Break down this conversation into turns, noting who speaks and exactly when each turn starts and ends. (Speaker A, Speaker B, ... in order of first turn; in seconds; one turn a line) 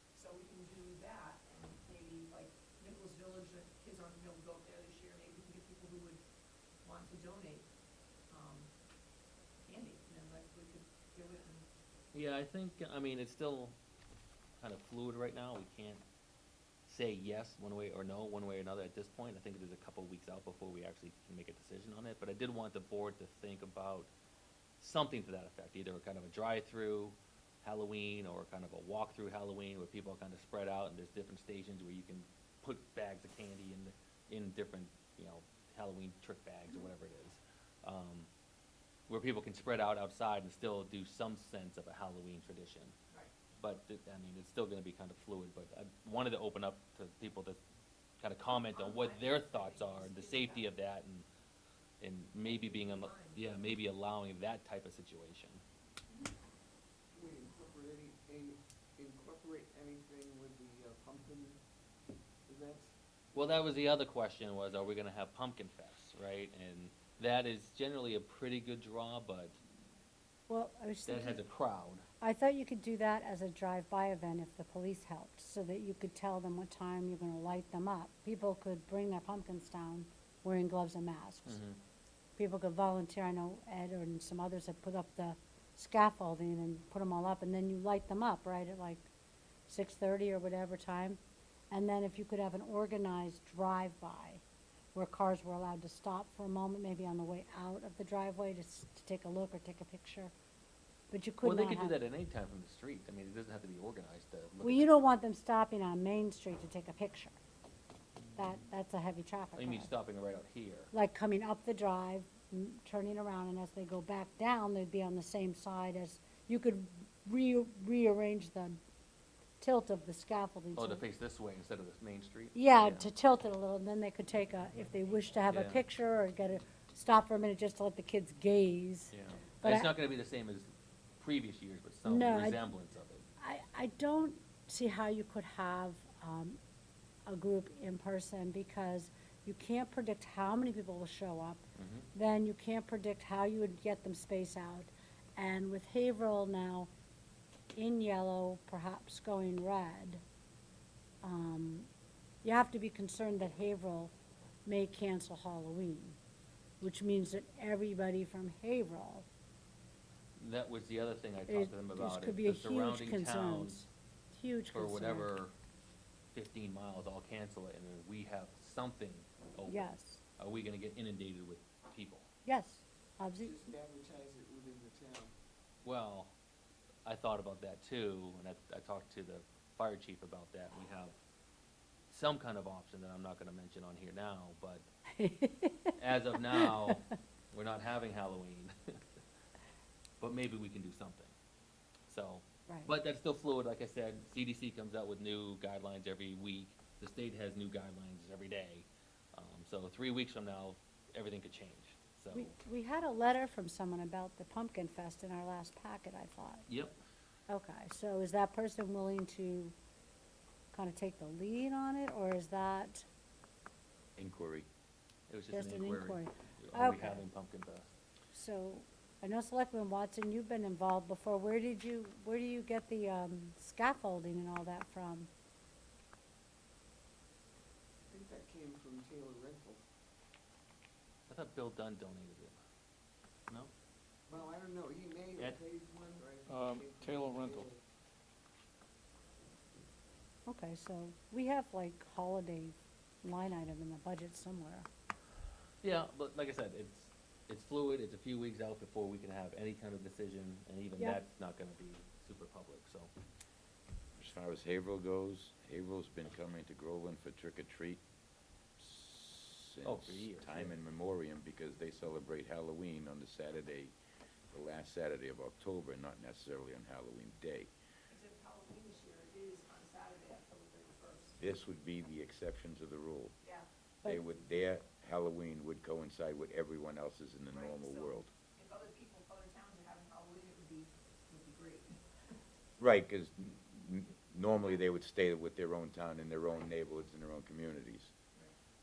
Speaker A: 0.1-6.2
Speaker A: 6.8-7.7
Speaker A: 8.3-8.7
Speaker A: 9.7-11.7
Speaker B: 12.1-13.8
Speaker B: 14.6-16.0
Speaker B: 16.9-24.1
Speaker B: 24.8-38.3
Speaker B: 39.1-42.9
Speaker B: 43.6-47.6
Speaker B: 48.2-51.3
Speaker A: 48.5-50.6
Speaker B: 52.0-55.6
Speaker A: 52.5-53.4
Speaker C: 57.1-61.6
Speaker C: 62.5-62.9
Speaker B: 63.3-69.6
Speaker D: 70.5-71.4
Speaker B: 71.1-72.0
Speaker D: 72.2-81.6
Speaker B: 81.5-81.8
Speaker D: 82.4-89.1
Speaker D: 89.7-91.2
Speaker D: 91.7-94.4
Speaker D: 94.9-100.3
Speaker D: 101.1-102.0
Speaker B: 101.4-104.9
Speaker D: 104.6-107.4
Speaker D: 108.4-109.9
Speaker B: 109.6-110.9
Speaker D: 110.9-118.8
Speaker D: 119.6-121.0
Speaker B: 120.8-123.1
Speaker D: 122.5-129.9
Speaker B: 125.5-125.8
Speaker B: 129.1-130.7
Speaker B: 131.2-133.2
Speaker D: 132.1-132.6
Speaker D: 133.4-136.6
Speaker D: 137.3-141.6
Speaker B: 141.8-142.1
Speaker D: 142.1-146.9
Speaker D: 147.8-150.2
Speaker D: 151.2-151.9
Speaker D: 152.4-154.1
Speaker D: 154.7-156.2
Speaker D: 156.8-159.3
Speaker B: 160.4-163.8
Speaker D: 161.5-165.3
Speaker B: 164.7-165.5
Speaker B: 166.3-172.3
Speaker D: 169.7-170.2
Speaker D: 172.4-173.7
Speaker C: 173.4-175.3
Speaker B: 175.8-176.3
Speaker B: 177.1-181.2
Speaker B: 182.1-184.9
Speaker D: 185.2-187.0
Speaker B: 186.0-189.0
Speaker B: 190.2-191.3
Speaker B: 192.1-202.5
Speaker D: 202.3-206.7
Speaker B: 206.7-207.0
Speaker D: 207.5-209.8
Speaker D: 210.7-213.1
Speaker E: 214.2-214.7
Speaker B: 215.3-217.9
Speaker D: 215.5-217.3
Speaker D: 218.3-225.3
Speaker C: 228.1-229.8
Speaker B: 231.3-232.6
Speaker C: 234.3-237.8
Speaker A: 236.5-237.7
Speaker D: 240.5-244.9
Speaker B: 245.8-253.1
Speaker E: 254.2-258.0
Speaker E: 258.8-263.9
Speaker B: 259.8-260.8
Speaker E: 264.5-267.7
Speaker A: 268.1-271.4
Speaker E: 271.4-273.4
Speaker E: 274.1-278.3
Speaker A: 277.5-282.0
Speaker E: 282.8-288.1